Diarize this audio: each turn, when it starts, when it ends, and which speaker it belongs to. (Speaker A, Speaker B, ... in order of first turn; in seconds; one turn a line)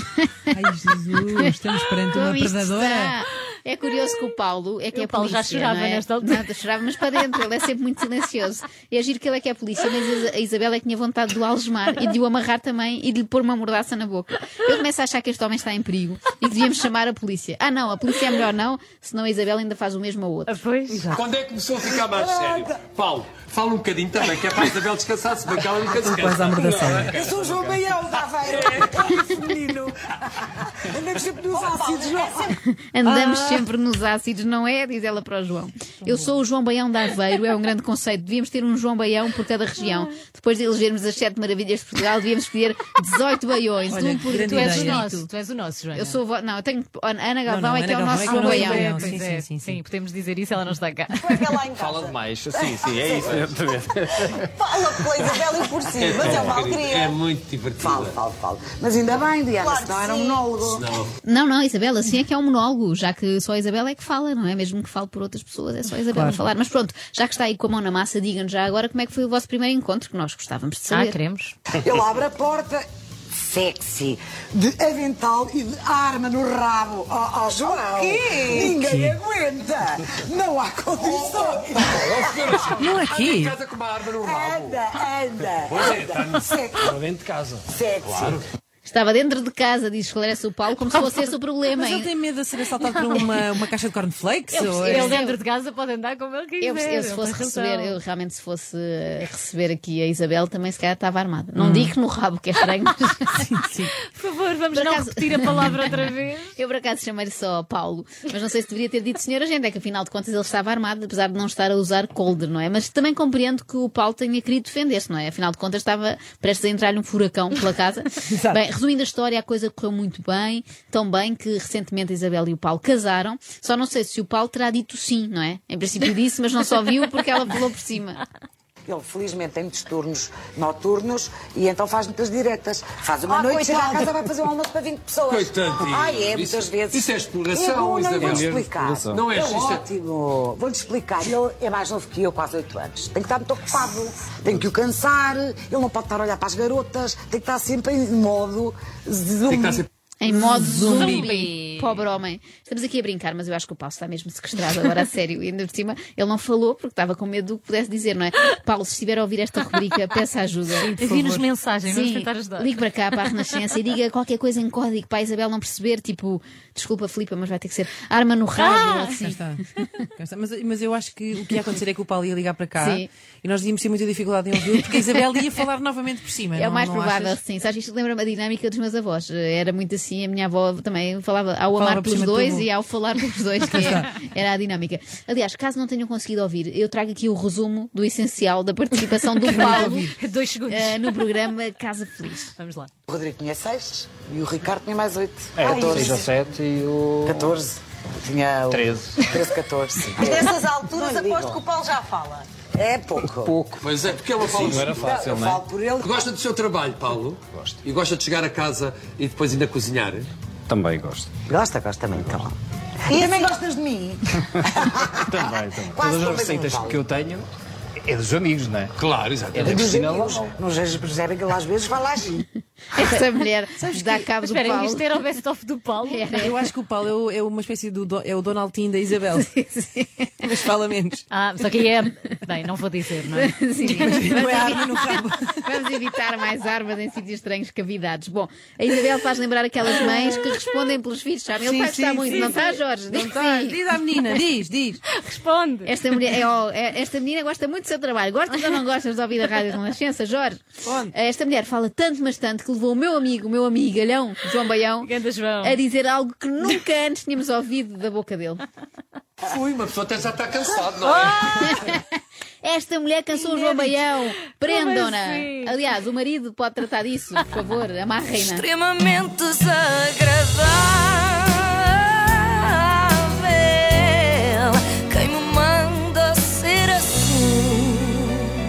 Speaker A: 0.2-0.6
Speaker B: 0.5-3.1
Speaker A: 2.1-20.6
Speaker C: 4.9-6.5
Speaker C: 20.5-21.2
Speaker B: 20.9-21.3
Speaker D: 21.1-27.8
Speaker E: 21.8-22.8
Speaker B: 26.0-27.2
Speaker E: 27.1-32.5
Speaker D: 28.5-28.9
Speaker F: 31.7-32.5
Speaker A: 32.5-45.3
Speaker B: 33.0-33.7
Speaker B: 43.9-45.0
Speaker C: 44.4-46.2
Speaker A: 45.9-49.1
Speaker B: 47.5-49.8
Speaker C: 48.2-51.5
Speaker F: 51.1-52.2
Speaker G: 51.8-54.4
Speaker E: 52.5-53.5
Speaker F: 54.5-57.2
Speaker D: 55.9-58.1
Speaker E: 57.8-60.9
Speaker F: 59.6-60.5
Speaker D: 60.6-61.1
Speaker A: 61.2-71.2
Speaker B: 66.1-66.4
Speaker C: 70.9-71.5
Speaker E: 71.7-82.7
Speaker F: 77.6-78.8
Speaker B: 78.7-79.2
Speaker D: 81.0-84.8
Speaker B: 82.8-83.6
Speaker E: 84.2-86.6
Speaker D: 85.5-87.4
Speaker G: 86.9-87.6
Speaker E: 87.7-88.4
Speaker D: 88.0-88.4
Speaker A: 88.8-92.1
Speaker B: 91.7-95.2
Speaker C: 92.9-93.3
Speaker A: 94.5-95.4
Speaker C: 94.8-98.0
Speaker A: 96.6-103.5
Speaker B: 101.6-102.0
Speaker B: 103.5-103.9
Speaker C: 104.1-106.5
Speaker A: 104.7-106.0
Speaker A: 106.6-128.2
Speaker B: 118.3-118.6
Speaker E: 128.9-149.9
Speaker F: 133.5-133.9
Speaker D: 135.3-138.6
Speaker G: 138.2-139.2
Speaker D: 139.1-139.8
Speaker D: 149.5-149.9
Speaker A: 150.2-160.9
Speaker B: 150.3-151.3
Speaker C: 150.8-152.0
Speaker C: 160.7-163.5
Speaker B: 161.0-161.4
Speaker A: 161.9-169.4
Speaker C: 168.6-169.2
Speaker B: 168.8-177.4
Speaker A: 172.8-173.1
Speaker A: 176.6-190.1
Speaker B: 181.8-182.7
Speaker B: 183.7-184.1
Speaker C: 189.5-191.3
Speaker B: 189.5-190.1
Speaker A: 190.7-192.5
Speaker C: 192.6-192.9
Speaker E: 193.1-196.2
Speaker G: 195.6-197.6
Speaker F: 195.7-196.3
Speaker E: 197.2-201.7
Speaker G: 198.7-199.2
Speaker F: 200.2-202.5
Speaker E: 202.8-203.7
Speaker G: 203.4-203.8
Speaker D: 203.8-205.2
Speaker E: 204.4-206.3
Speaker G: 204.7-205.6
Speaker D: 206.0-210.3
Speaker G: 210.7-211.3
Speaker E: 211.5-217.1
Speaker G: 215.3-217.5
Speaker G: 218.0-218.9
Speaker D: 219.0-219.9
Speaker G: 219.5-220.5
Speaker E: 219.6-222.5
Speaker A: 222.9-225.1
Speaker B: 223.8-224.3
Speaker C: 224.4-226.5
Speaker A: 226.1-226.7
Speaker B: 226.4-229.5
Speaker A: 229.3-230.5
Speaker B: 230.4-231.3
Speaker C: 231.3-234.3
Speaker A: 233.4-243.8
Speaker B: 233.8-235.6
Speaker B: 241.6-245.0
Speaker C: 245.2-245.9
Speaker A: 245.8-258.6
Speaker B: 250.9-251.1
Speaker C: 255.0-255.8
Speaker D: 259.4-261.7
Speaker C: 261.0-261.9
Speaker A: 261.6-262.1
Speaker A: 262.6-268.7
Speaker C: 263.3-265.8
Speaker H: 268.3-278.3